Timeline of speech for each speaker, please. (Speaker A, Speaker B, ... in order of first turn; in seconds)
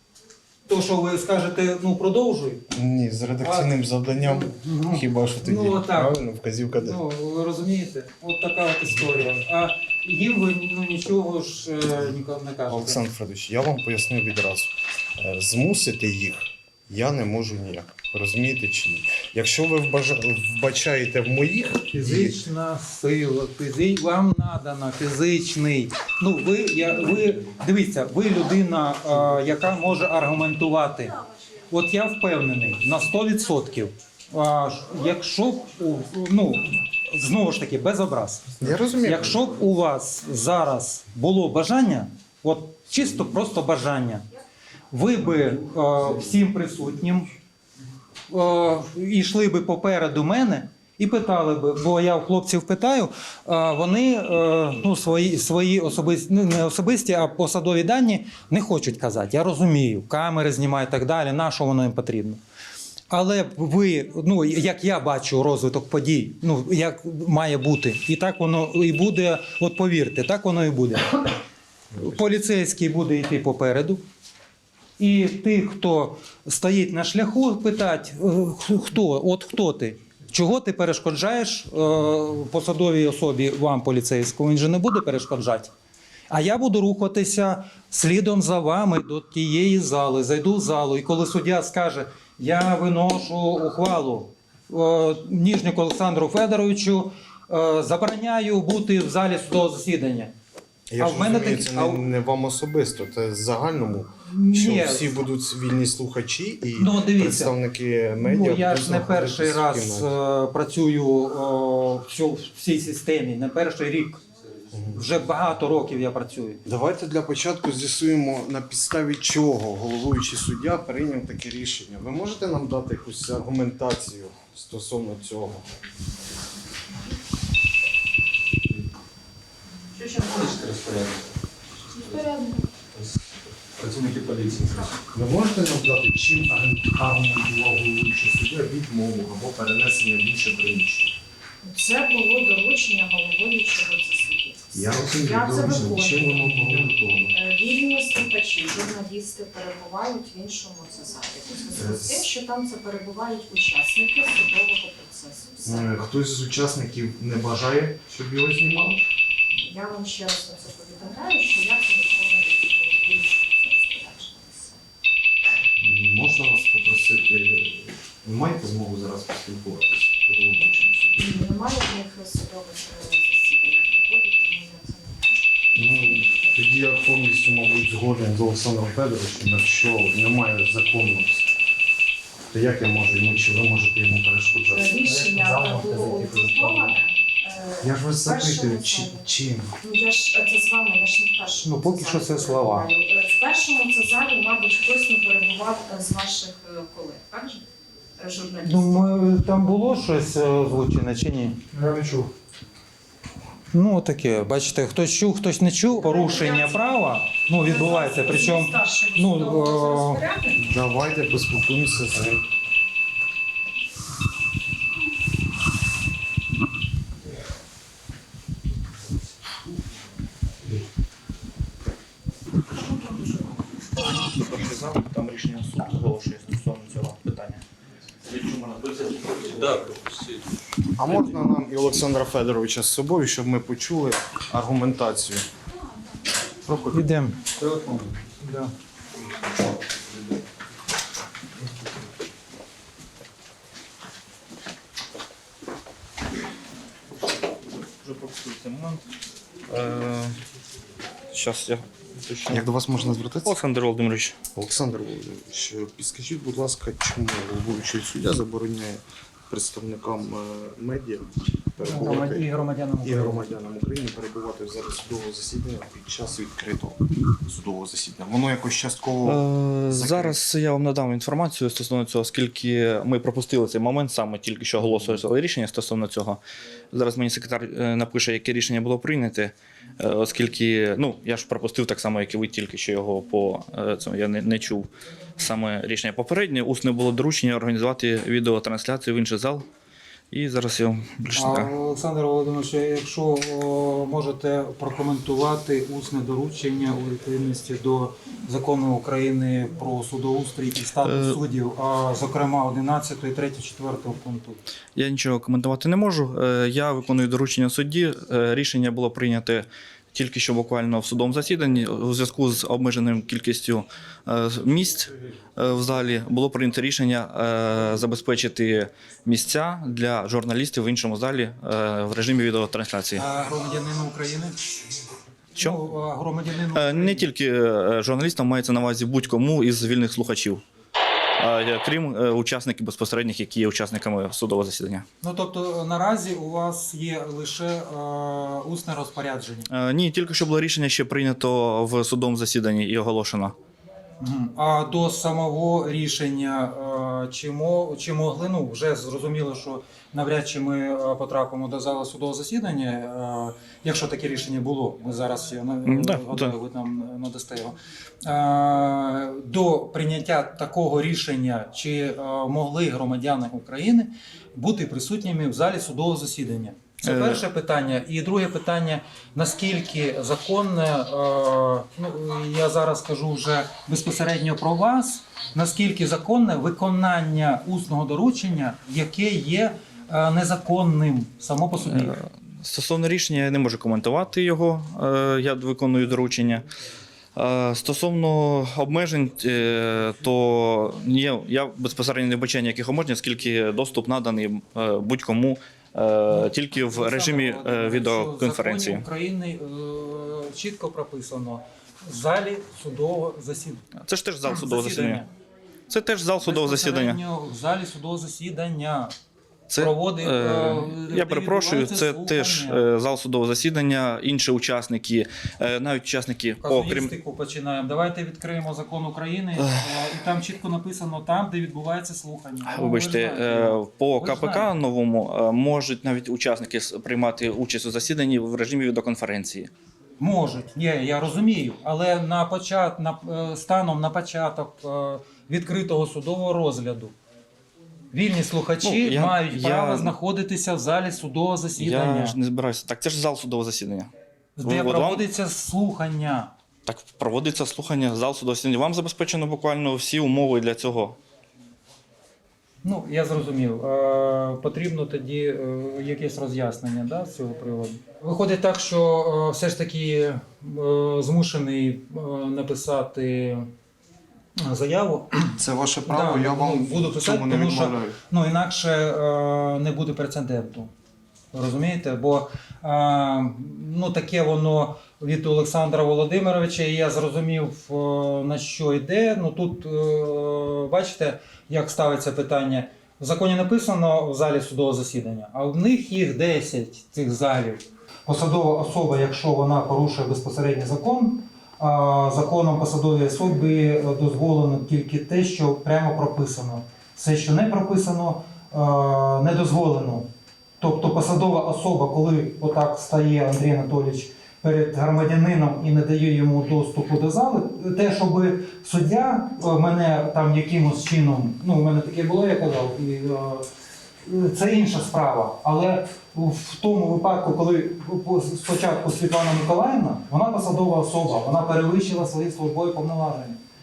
Speaker A: 0.7-2.6, 3.4-6.2, 6.7-13.0, 21.9-31.1, 31.7-44.2, 44.9-47.3, 48.3-62.4, 63.1-71.3, 72.0-74.0, 75.0-85.7, 86.3-100.3, 101.0-102.0, 104.2-105.2, 106.8-107.5, 108.2-114.2, 114.9-116.6, 191.6-192.9, 198.6-201.7, 203.7-210.2, 236.9-237.4, 238.4-238.7, 261.8-263.4, 291.3-304.6, 323.1-324.6, 325.6-327.3, 335.2-339.7, 344.2-382.2, 396.3-403.9, 404.4-405.3, 406.4-409.1, 409.8-412.8, 416.6-424.7, 430.2-437.1, 438.1-442.4, 444.6-446.5, 452.8-463.7, 464.6-470.9, 471.5-500.3, 500.8-513.7, 514.2-523.6
Speaker B: 2.7-7.0, 12.7-22.4, 38.6-39.5, 100.9-110.2, 114.7-115.0, 116.6-125.7, 135.1-141.1, 144.7-147.3, 151.7-152.3, 155.6-159.0, 165.8-171.3, 175.7-181.5, 182.5-186.9, 187.8-189.8, 210.6-212.4, 231.0-235.4, 236.6-237.1, 252.5-253.6, 254.5-262.5, 263.0-270.4, 465.5-468.2
Speaker C: 130.3-131.1, 133.8-134.9
Speaker D: 132.0-132.7, 141.6-146.6, 147.3-155.9, 159.5-164.8, 171.2-175.4, 184.7-189.3, 189.8-197.6, 198.2-199.1, 206.0-210.6, 222.7-223.6
Speaker E: 224.0-227.6, 228.2-230.5, 247.9-249.0, 249.7-250.4, 251.3-252.7, 253.4-254.4, 269.2-276.4, 276.9-289.6, 290.3-291.7, 301.0-301.4, 304.9-323.3, 325.5-325.8, 326.7-330.6, 331.4-335.1, 339.7-343.5, 355.9-356.5, 367.0-367.4, 381.8-386.6, 387.4-399.1, 404.0-405.3, 405.9-407.2, 409.7-417.1, 419.6-419.8, 422.6-429.7, 438.8-440.1, 441.8-444.1, 444.6-445.3, 446.9-451.2